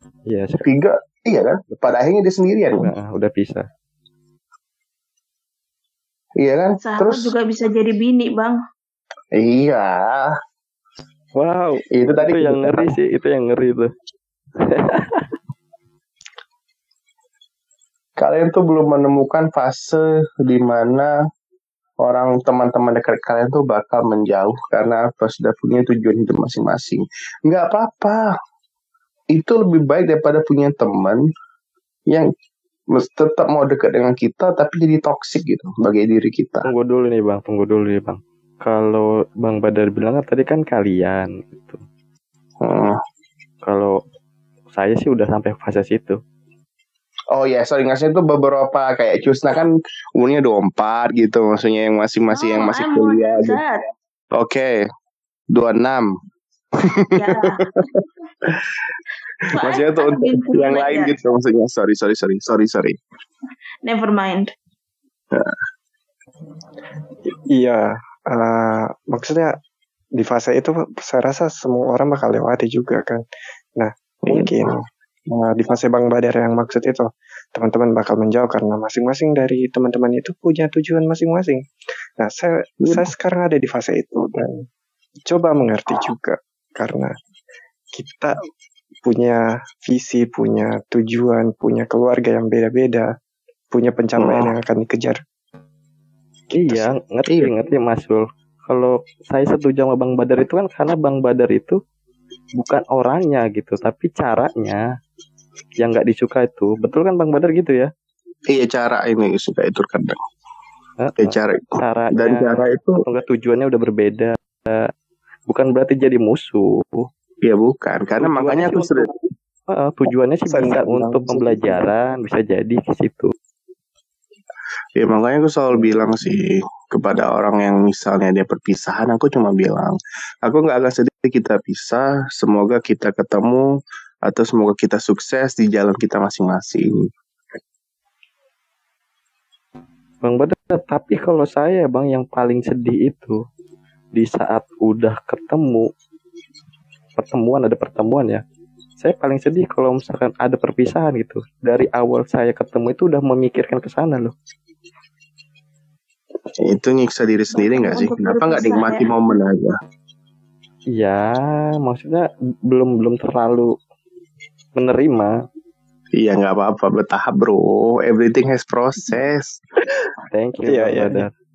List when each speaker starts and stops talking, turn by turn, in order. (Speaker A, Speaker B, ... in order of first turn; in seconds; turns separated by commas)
Speaker A: 0.3-0.6, Speaker B: 0.6-2.9, Speaker A: 2.8-3.6, Speaker B: 6.4-7.3, Speaker C: 6.8-8.6, Speaker B: 9.3-10.3, Speaker A: 11.4-13.9, Speaker B: 11.9-12.9, Speaker A: 14.6-15.3, Speaker B: 18.2-21.1, Speaker B: 22.0-28.3, Speaker B: 29.3-31.2, Speaker B: 32.9-36.7, Speaker A: 36.6-41.8, Speaker B: 42.6-43.0, Speaker A: 43.6-44.0, Speaker A: 44.7-46.2, Speaker B: 47.3-53.6, Speaker C: 52.3-53.8, Speaker B: 54.3-54.8, Speaker B: 55.5-56.1, Speaker B: 56.8-58.9, Speaker C: 57.1-57.7, Speaker B: 59.4-63.0, Speaker C: 59.5-61.1, Speaker C: 63.8-64.5, Speaker D: 67.5-69.5, Speaker D: 70.2-73.2, Speaker D: 73.8-74.8, Speaker B: 74.2-74.8, Speaker D: 75.3-81.6, Speaker D: 82.2-84.7, Speaker D: 85.2-87.1, Speaker D: 88.0-88.3, Speaker D: 89.0-93.1, Speaker D: 93.7-95.2, Speaker B: 94.2-94.5, Speaker A: 96.5-101.8, Speaker B: 96.6-97.5, Speaker A: 102.5-104.8, Speaker A: 105.8-107.9, Speaker B: 108.5-110.2, Speaker A: 111.0-114.9, Speaker B: 111.2-113.0, Speaker A: 115.5-117.1, Speaker B: 117.4-119.1, Speaker A: 118.2-119.1, Speaker A: 119.7-123.3, Speaker D: 120.5-121.9, Speaker B: 125.0-133.7, Speaker B: 134.2-137.1, Speaker A: 140.2-143.4, Speaker A: 144.1-145.9, Speaker A: 147.2-148.4, Speaker A: 149.0-154.3, Speaker B: 156.6-159.8, Speaker C: 157.5-159.1, Speaker A: 160.9-163.7, Speaker A: 164.8-165.3, Speaker B: 166.2-169.6, Speaker A: 170.3-171.3, Speaker D: 170.6-171.3